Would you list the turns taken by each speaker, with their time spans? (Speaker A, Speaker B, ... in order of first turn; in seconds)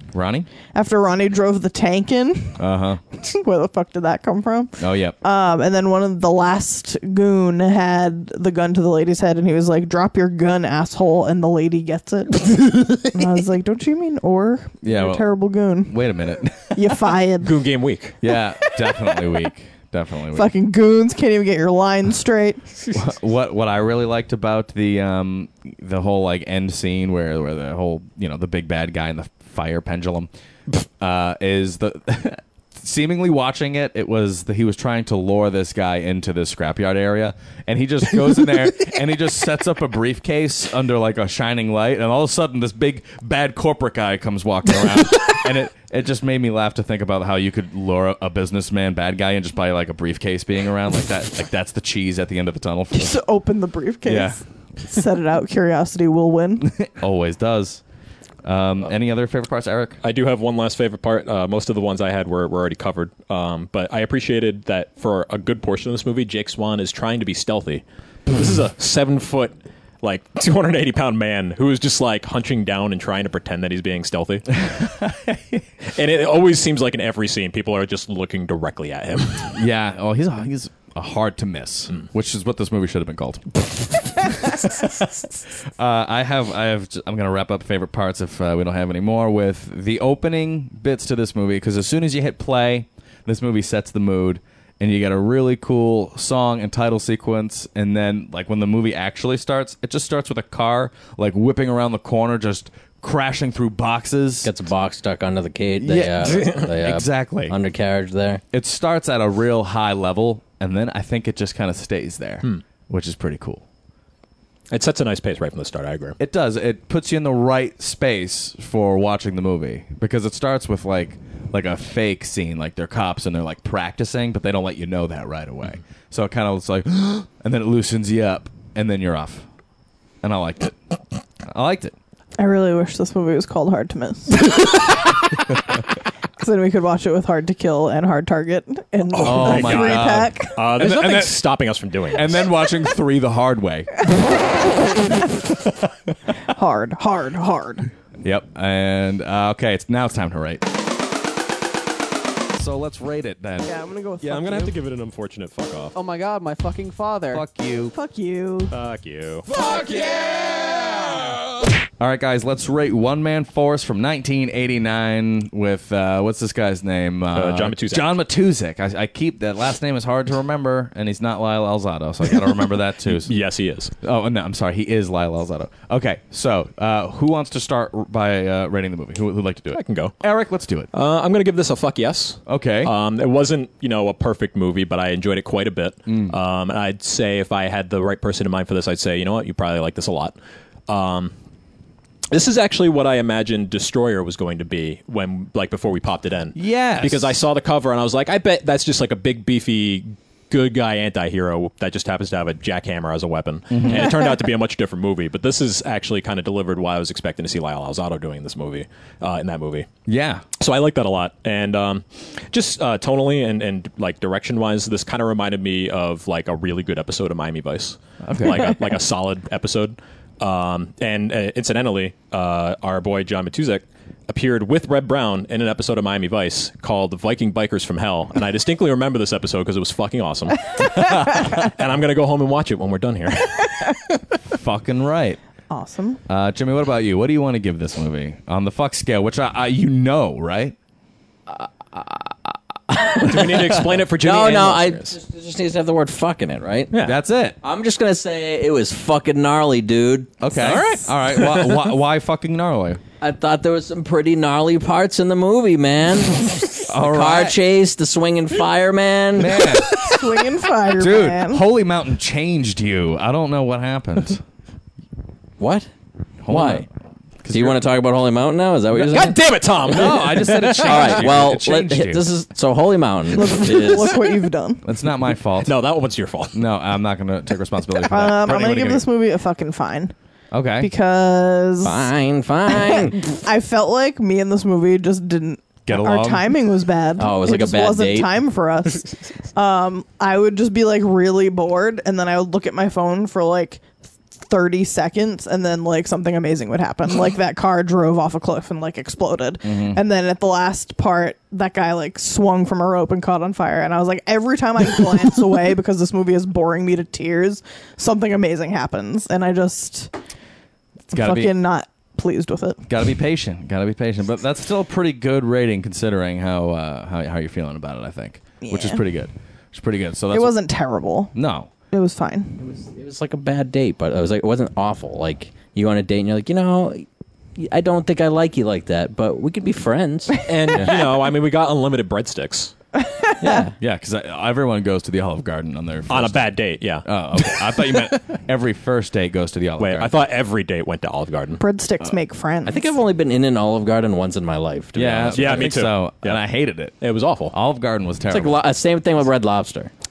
Speaker A: 0.1-0.5, 2.6-3.0, 4.8-5.2, 14.8-15.3, 15.8-16.9, 18.2-20.5, 22.9-53.2, 54.0-54.4, 56.6-57.8, 58.4-60.0, 74.6-75.6, 79.5-85.2, 85.8-104.5, 105.8-107.5, 108.5-113.6, 116.2-129.5, 130.2-130.8, 131.5-131.9, 139.2-141.4, 142.1-144.1, 148.2-150.6, 152.5-153.7, 157.3-157.9, 159.6-160.8, 162.0-173.3, 174.0-180.9, 182.5-182.9, 186.1-186.3, 196.6-197.4, 203.7-204.2, 210.1-210.4, 218.2-218.8, 231.0-231.5, 234.5-235.4, 236.3-240.8, 247.0-247.6, 250.4-253.0, 256.9-257.6, 259.4-260.0, 261.0-264.4, 266.4-266.9, 267.4-267.8, 269.9-272.2, 274.9-275.7, 276.5-279.1, 280.5-280.9, 285.9-286.5, 299.6-300.0, 311.1-311.6, 312.9-320.6, 321.4-321.7, 333.8-336.4, 337.1-340.1, 344.9-347.0, 347.5-348.6
Speaker B: 0.7-2.6, 3.1-16.0, 16.7-17.6, 20.3-22.8, 52.9-56.7, 132.4-134.7, 136.4-140.6, 146.5-147.9, 153.8-154.7, 157.9-158.7, 235.7-236.2, 260.0-261.6, 273.4-274.8, 278.1-280.1, 280.8-282.1, 282.7-293.8, 294.4-310.1, 311.1-312.8, 318.6-319.0, 320.3-321.4, 321.9-322.6, 333.1-333.6, 341.6-343.0
Speaker C: 17.4-18.2, 60.0-74.6, 75.9-79.6, 114.7-116.2, 139.1-142.5, 154.2-155.9, 158.7-159.5, 167.3-168.1, 173.2-173.9, 179.7-180.2, 180.9-190.4, 190.9-191.3, 192.3-209.9, 210.6-234.0, 243.2-245.2, 246.9-247.2, 250.6-251.9, 269.0-271.4, 275.6-276.6, 278.5-278.9, 330.5-332.7, 336.1-338.2, 339.8-341.6, 345.3-346.4, 347.0-347.6
Speaker D: 104.4-108.4, 241.5-246.9, 247.6-250.4, 253.2-259.7, 265.6-265.9, 266.5-266.9, 267.5-269.4, 270.8-274.2, 281.8-283.2, 287.2-288.3, 322.6-330.9, 333.4-333.8, 342.6-345.7, 348.3-349.9
Speaker E: 153.8-154.3, 155.9-157.4